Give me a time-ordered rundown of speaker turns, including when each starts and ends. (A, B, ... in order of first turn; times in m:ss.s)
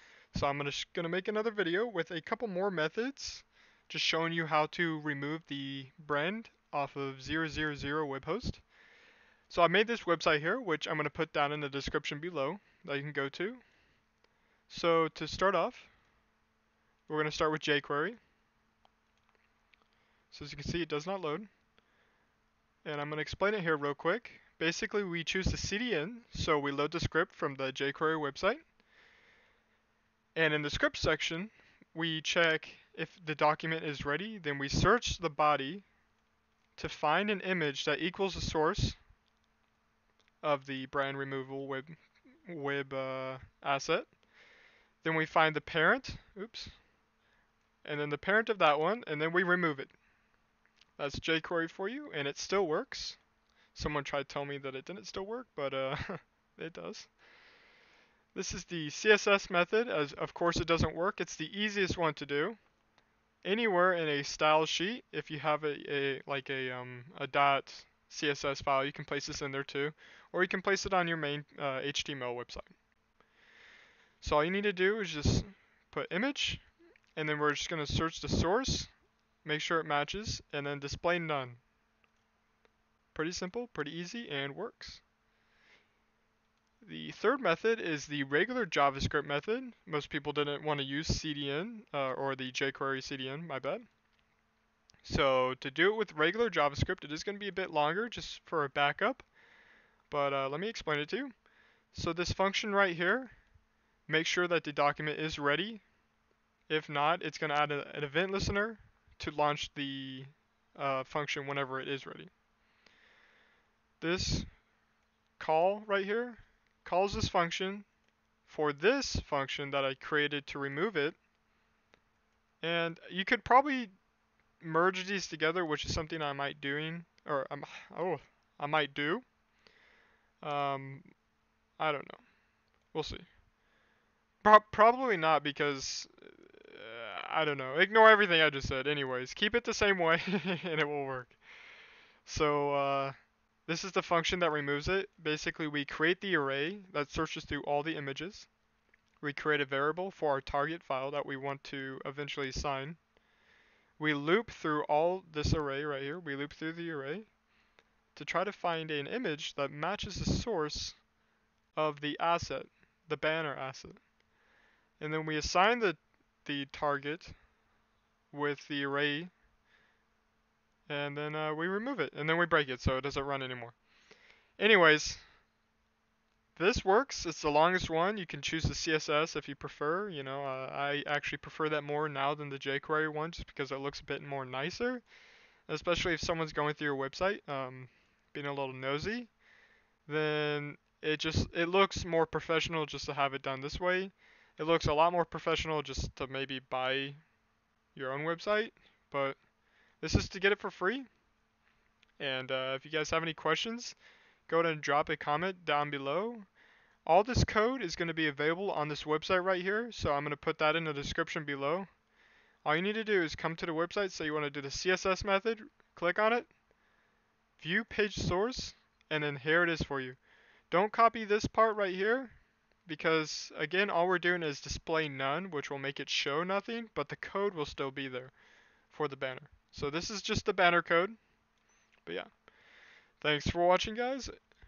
0:00.3-0:08.6 A
0:09.5-0:13.6 A
0:14.7-0:15.9 A
0:17.1-0:18.2 A
0:20.3-0:21.5 A
0:22.8-0:28.6 A
0:30.3-0:35.8 A
0:36.8-0:39.0 A
0:40.4-0:44.2 A
0:45.0-0:46.8 A
0:47.8-0:49.9 A
0:51.0-0:53.2 A
0:53.7-0:57.1 A
0:58.3-1:02.6 A
1:03.4-1:12.7 A
1:14.2-1:18.9 A
1:19.4-1:21.6 A
1:23.1-1:25.0 A
1:26.8-1:33.8 A
1:35.0-1:39.3 A
1:40.1-1:41.3 A
1:41.9-1:43.4 A
1:44.1-1:45.8 A
1:46.7-1:52.3 A
1:54.0-1:54.5 A
1:55.4-1:57.9 A
1:58.4-2:01.2 A
2:02.6-2:03.9 A
2:04.6-2:09.2 A
2:10.4-2:11.1 A
2:11.8-2:12.3 A
2:12.8-2:13.3 A
2:14.4-2:21.4 A
2:22.2-2:28.5 A
2:29.2-2:33.0 A
2:34.0-2:37.3 A
2:38.1-2:41.0 A
2:41.7-2:44.0 A
2:45.0-2:47.4 A
2:48.3-2:49.3 A
2:50.9-2:53.8 A
2:54.6-2:55.2 A
2:56.6-3:05.0 A
3:05.7-3:09.3 A
3:10.0-3:17.2 A
3:17.9-3:19.4 A
3:20.0-3:21.1 A
3:22.2-3:26.5 A
3:27.0-3:31.9 A
3:32.6-3:36.5 A
3:37.6-3:40.2 A
3:40.7-3:48.3 A
3:48.9-3:51.2 A
3:52.0-3:52.5 A
3:53.2-3:54.3 A